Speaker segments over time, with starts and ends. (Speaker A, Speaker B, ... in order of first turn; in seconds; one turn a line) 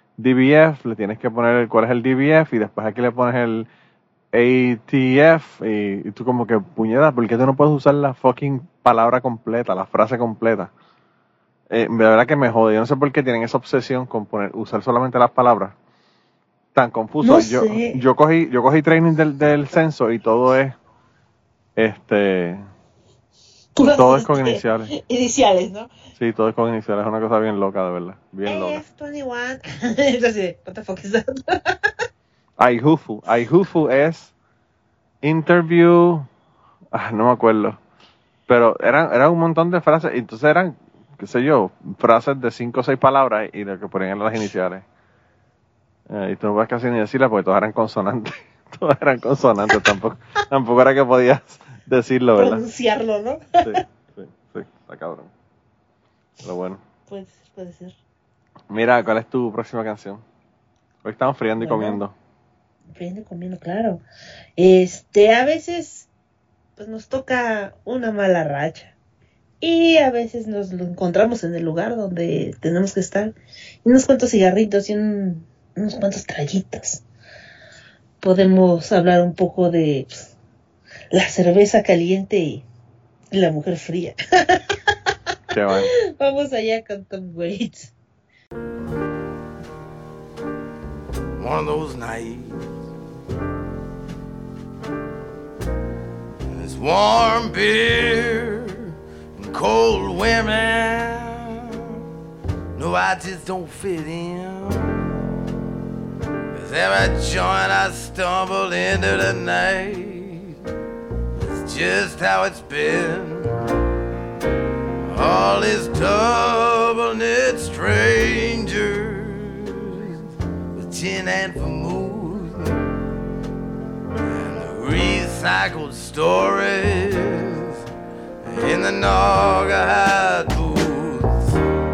Speaker A: 0.2-3.7
Speaker A: 4.3-10.7
Speaker A: 11.7-15.7
Speaker A: 16.8-20.8
Speaker B: 17.2-18.0
Speaker A: 21.8-22.6
Speaker B: 23.8-25.9
Speaker A: 23.9-24.9
Speaker A: 26.2-28.8
Speaker B: 28.5-31.8
Speaker A: 32.6-34.3
Speaker A: 35.2-36.3
Speaker A: 36.9-37.8
Speaker A: 38.5-44.8
Speaker A: 46.1-52.6
Speaker B: 52.4-53.8
Speaker A: 53.6-55.3
Speaker A: 56.4-56.8
Speaker B: 57.1-58.0
Speaker A: 58.7-60.2
Speaker A: 61.0-62.1
Speaker B: 61.6-62.0
Speaker B: 62.9-64.0
Speaker B: 64.6-66.1
Speaker B: 66.8-68.9
Speaker B: 69.6-77.0
Speaker B: 78.2-80.3
Speaker B: 81.1-82.7
Speaker B: 83.3-84.6
Speaker A: 85.5-85.9
Speaker B: 86.1-87.9
Speaker C: 91.4-92.7
Speaker C: 96.5-101.8
Speaker C: 102.8-105.0
Speaker C: 106.5-110.5
Speaker C: 111.5-113.6
Speaker C: 115.0-120.1
Speaker C: 120.7-122.8
Speaker C: 124.3-127.8
Speaker C: 128.4-131.6